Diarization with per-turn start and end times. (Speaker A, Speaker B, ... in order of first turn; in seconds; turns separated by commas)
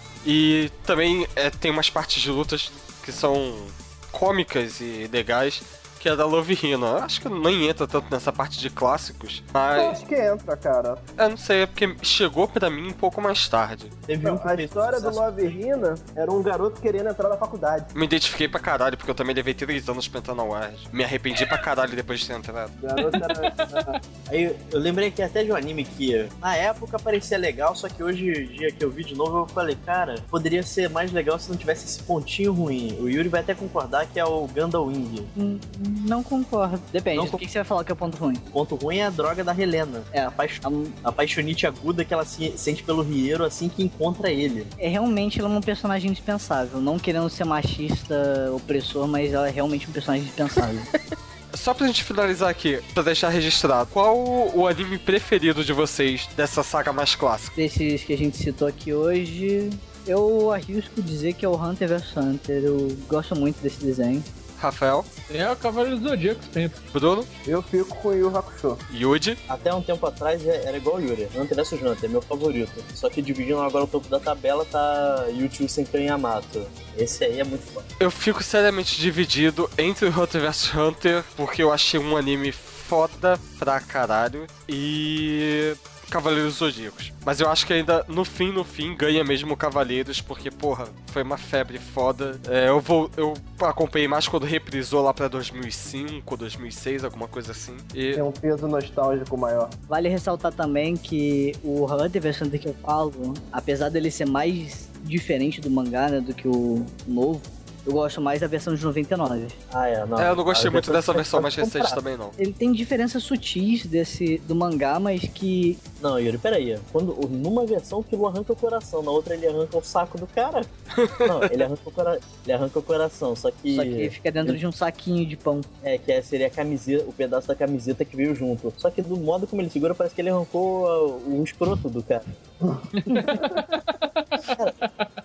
Speaker A: 0.2-10.0, Speaker B: 9.7-11.0, Speaker A: 11.2-13.9, Speaker C: 14.1-15.5, Speaker B: 14.2-17.9, Speaker A: 17.9-22.8, Speaker B: 22.8-23.9, Speaker D: 23.2-23.7, Speaker C: 24.3-35.3, Speaker E: 35.4-38.4, Speaker C: 37.1-37.4, Speaker C: 38.5-44.7, Speaker E: 40.1-40.9, Speaker E: 44.8-50.9, Speaker A: 51.5-57.5, Speaker E: 57.5-64.2, Speaker A: 64.6-65.1, Speaker D: 65.3-66.8, Speaker A: 66.9-67.3, Speaker B: 67.5-68.8, Speaker A: 68.9-69.4, Speaker C: 69.5-77.9, Speaker A: 78.0-98.2, Speaker B: 98.1-99.8, Speaker E: 99.9-109.6, Speaker C: 109.7-112.0, Speaker A: 110.2-112.3, Speaker E: 112.4-115.8, Speaker C: 116.0-124.6, Speaker E: 123.7-125.7, Speaker C: 125.8-132.2, Speaker D: 133.0-133.4, Speaker B: 133.1-133.5, Speaker C: 134.4-134.8